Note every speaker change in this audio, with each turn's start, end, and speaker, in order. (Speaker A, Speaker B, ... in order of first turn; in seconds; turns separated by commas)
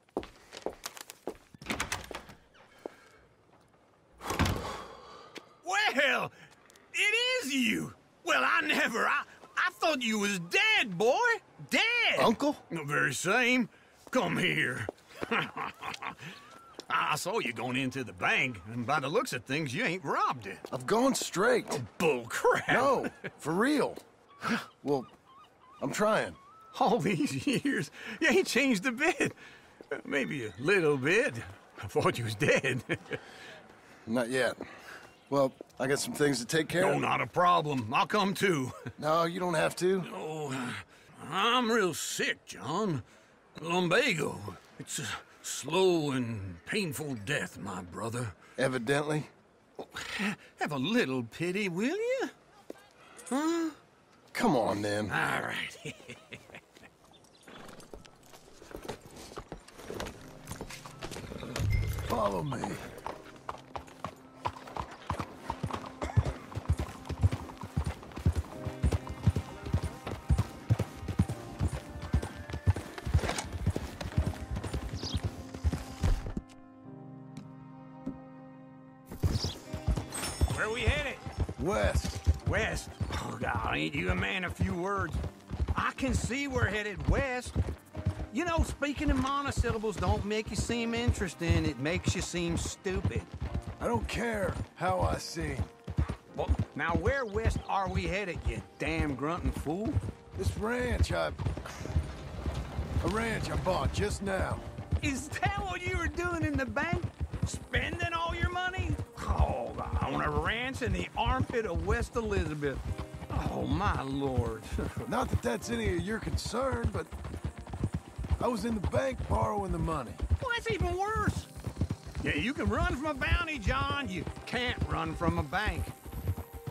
Speaker A: 5.6-6.3, Speaker A: 6.9-16.3, Speaker B: 12.1-12.6, Speaker A: 16.9-20.6, Speaker B: 20.7-21.8, Speaker A: 21.7-23.1, Speaker B: 22.7-24.0, Speaker B: 24.6-25.1, Speaker B: 25.8-26.4, Speaker A: 26.7-29.4, Speaker A: 29.9-33.2, Speaker B: 34.0-34.6, Speaker B: 35.3-37.0, Speaker A: 36.8-38.8, Speaker B: 39.0-40.1, Speaker A: 40.0-43.0, Speaker A: 43.6-48.3, Speaker B: 48.6-49.3, Speaker A: 49.8-52.3, Speaker A: 53.3-53.8, Speaker B: 54.3-55.2, Speaker A: 55.1-56.4, Speaker B: 62.1-62.9, Speaker A: 80.5-81.2, Speaker B: 81.6-82.2, Speaker A: 82.4-85.2, Speaker A: 85.7-87.6, Speaker A: 88.3-93.3, Speaker B: 93.8-95.7, Speaker A: 96.3-100.0, Speaker B: 100.3-101.4, Speaker B: 103.0-104.7, Speaker A: 105.0-115.0, Speaker B: 115.0-117.1, Speaker B: 118.4-120.2, Speaker A: 120.4-121.5, Speaker A: 122.2-125.9